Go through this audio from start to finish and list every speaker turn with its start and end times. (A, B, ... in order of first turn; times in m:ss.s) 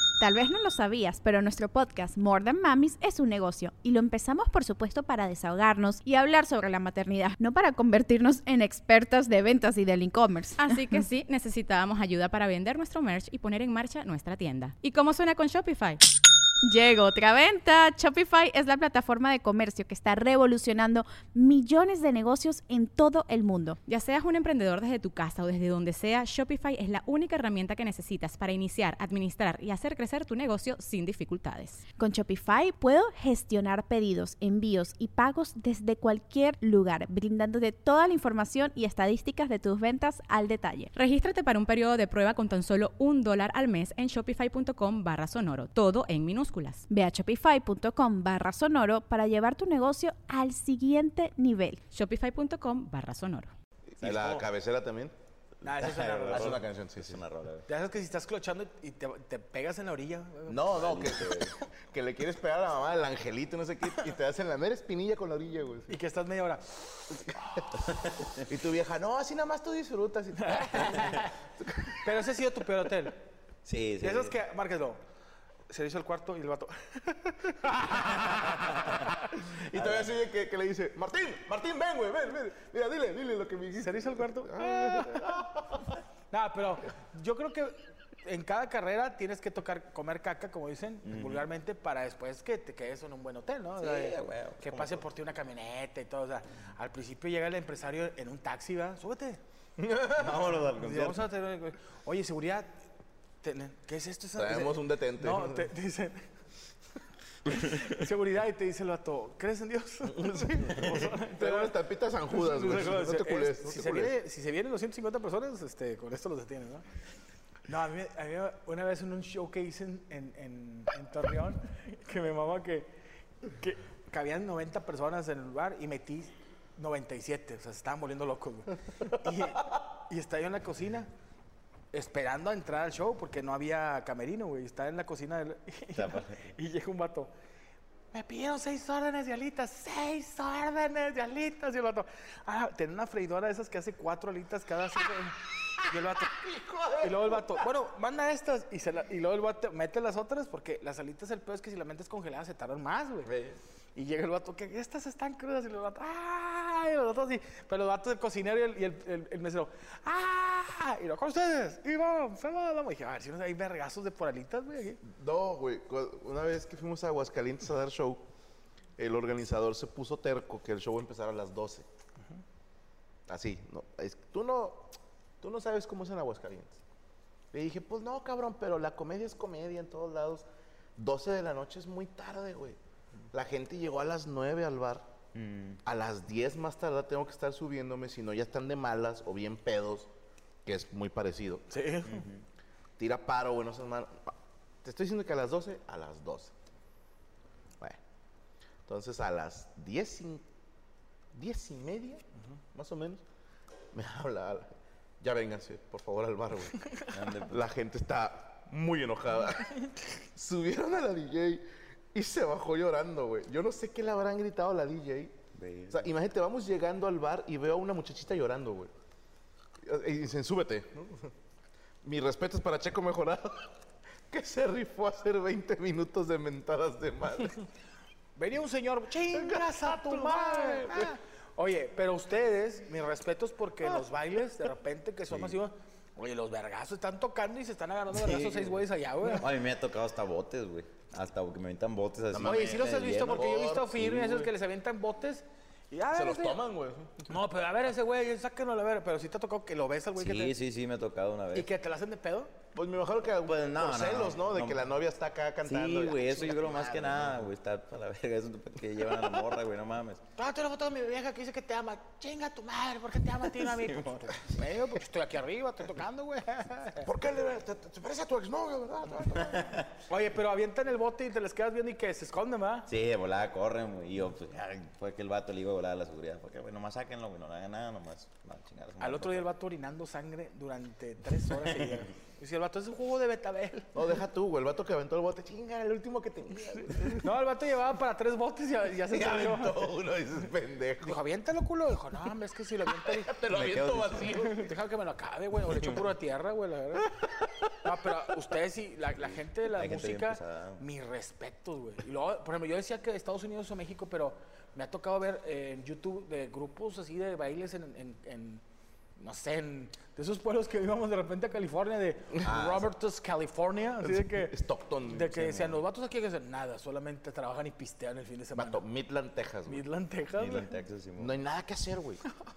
0:00.2-0:10.8 A
0:10.6-0:16.0 B
0:16.6-0:23.8 A
0:23.9-0:31.8 B
0:32.0-0:40.9 A
0:41.0-0:46.8 B
0:46.9-0:51.8 A
0:51.9-0:53.5 B
0:53.9-0:55.1 C
0:54.0-0:54.4 D
0:55.6-0:56.6 E
0:55.6-0:57.7 D
0:56.3-0:57.2 C
0:57.7-1:01.0 E
1:00.5-1:06.0 C
1:00.8-1:01.6 D
1:05.9-1:07.4 E
1:08.0-1:08.4 D
1:08.4-1:12.1 C
1:10.4-1:11.3 E
1:12.0-1:13.2 E
1:13.6-1:14.4 D
1:14.0-1:15.0 E
1:15.7-1:17.7 E
1:17.6-1:25.9 C
1:18.5-1:19.0 D
1:19.8-1:20.1 D
1:23.8-1:25.2 E
1:26.3-1:39.4 E
1:31.0-1:31.5 D
1:33.8-1:35.1 D
1:39.8-1:40.6 C
1:40.1-1:41.3 D
1:40.8-1:42.8 E
1:43.4-1:46.2 E
1:44.4-1:45.7 C
1:47.5-1:51.8 E
1:50.0-1:54.2 C
1:52.3-1:56.8 E
1:57.7-2:02.9 E
2:03.6-2:11.1 E
2:11.9-2:17.3 E
2:16.0-2:16.4 D
2:18.1-2:26.4 E
2:26.4-2:27.5 C
2:27.0-2:33.3 E
2:33.3-2:33.6 D
2:34.0-2:45.0 E
2:45.0-2:48.2 C
2:49.0-2:51.9 C
2:53.3-2:56.8 C
2:57.5-3:00.4 C
3:01.0-3:02.8 C
3:03.3-3:05.1 C
3:05.3-3:05.8 D
3:05.8-3:10.1 C
3:10.6-3:11.6 C
3:11.7-3:12.2 E
3:12.0-3:12.4 D
3:13.0-3:16.5 C
3:18.9-3:20.4 C
3:21.3-3:23.2 C
3:23.9-3:26.8 C
3:27.1-3:27.7 D
3:27.5-3:29.8 C
3:30.4-3:35.4 C
3:35.5-3:36.1 D
3:35.9-3:38.9 C
3:39.8-3:41.3 C
3:42.0-3:43.7 C
3:44.3-3:47.6 C
3:48.4-3:59.5 E
3:49.3-3:51.2 C
3:58.1-4:04.5 D
4:02.3-4:04.2 C
4:02.4-4:06.6 E
4:06.1-4:07.4 C
4:07.3-4:10.5 E
4:10.2-4:11.7 D
4:11.5-4:12.5 E
4:12.7-4:17.5 C
4:13.4-4:14.8 D
4:15.6-4:20.2 D
4:20.4-4:27.1 E
4:23.5-4:24.4 D
4:27.0-4:29.8 C
4:29.4-4:29.9 D
4:30.1-4:32.9 E
4:32.9-4:39.5 D
4:39.0-4:44.0 E
4:43.9-4:47.3 C
4:47.2-4:49.8 E
4:49.1-4:51.2 C
4:51.0-4:53.4 E
4:53.0-4:54.7 C
4:53.5-4:54.3 D
4:54.3-4:57.1 E
4:57.2-4:57.7 C
4:57.8-5:08.6 E
4:59.2-5:00.8 D
5:09.2-5:18.8 E
5:12.5-5:12.8 D
5:14.0-5:15.8 C
5:18.6-5:19.9 C
5:19.7-5:20.7 E
5:20.4-5:21.4 D
5:21.2-5:22.2 C